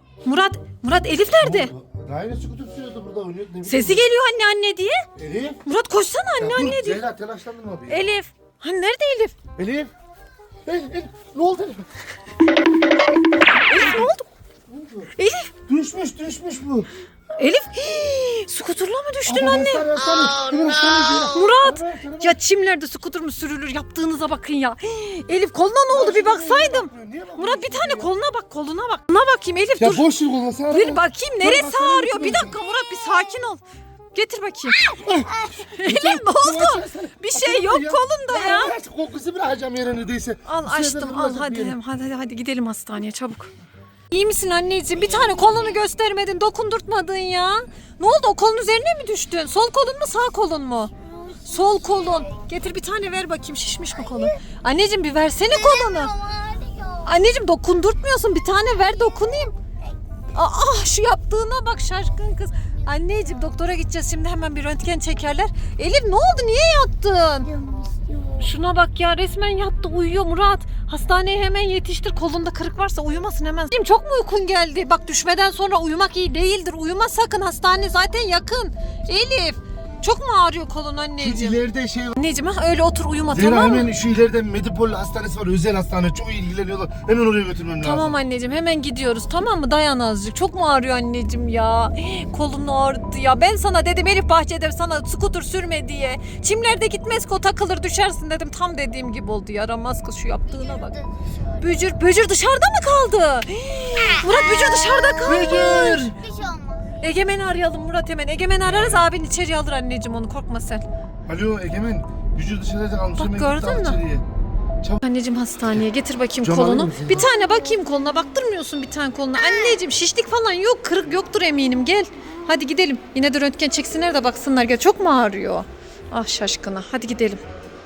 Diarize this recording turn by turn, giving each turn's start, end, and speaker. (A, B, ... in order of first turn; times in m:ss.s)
0:00.2-0:01.7 A
0:01.4-0:04.0 B
0:03.6-0:05.0 A
0:05.2-0:05.6 B
0:05.6-0:07.0 A
0:06.4-0:08.0 B
0:07.9-0:09.4 A
0:09.6-0:09.9 B
0:10.6-0:11.9 B
0:13.6-0:14.3 A
0:14.7-0:15.1 B
0:15.2-0:15.5 A
0:15.6-0:16.9 B
0:17.4-0:19.9 A
0:19.2-0:22.4 B
0:21.2-0:30.1 A
0:25.9-0:28.1 B
0:29.8-0:32.6 B
0:30.7-0:33.6 A
0:34.1-0:34.9 A
0:34.9-0:35.3 B
0:35.1-0:35.7 C
0:35.5-0:38.8 A
0:35.8-0:41.8 B
0:40.4-0:43.5 A
0:44.1-0:50.9 A
0:44.9-0:45.8 C
0:51.0-0:52.4 C
0:51.4-0:56.1 A
0:53.9-0:54.4 C
0:55.4-0:57.3 C
0:57.0-0:59.5 A
0:58.5-1:00.0 C
1:00.3-1:07.5 A
1:02.6-1:03.3 C
1:07.4-1:08.5 C
1:08.4-1:21.6 A
1:21.2-1:22.2 B
1:22.1-1:23.9 A
1:23.3-1:28.1 B
1:27.8-1:40.9 A
1:40.5-1:41.9 C
1:41.6-1:46.1 A
1:44.0-1:47.0 C
1:45.2-1:46.2 B
1:47.0-1:50.8 A
1:48.6-1:49.0 B
1:51.3-1:54.2 B
1:53.2-1:54.0 A
1:55.0-2:07.4 A
1:56.4-1:57.3 B
1:57.3-1:58.0 C
1:59.4-1:59.8 C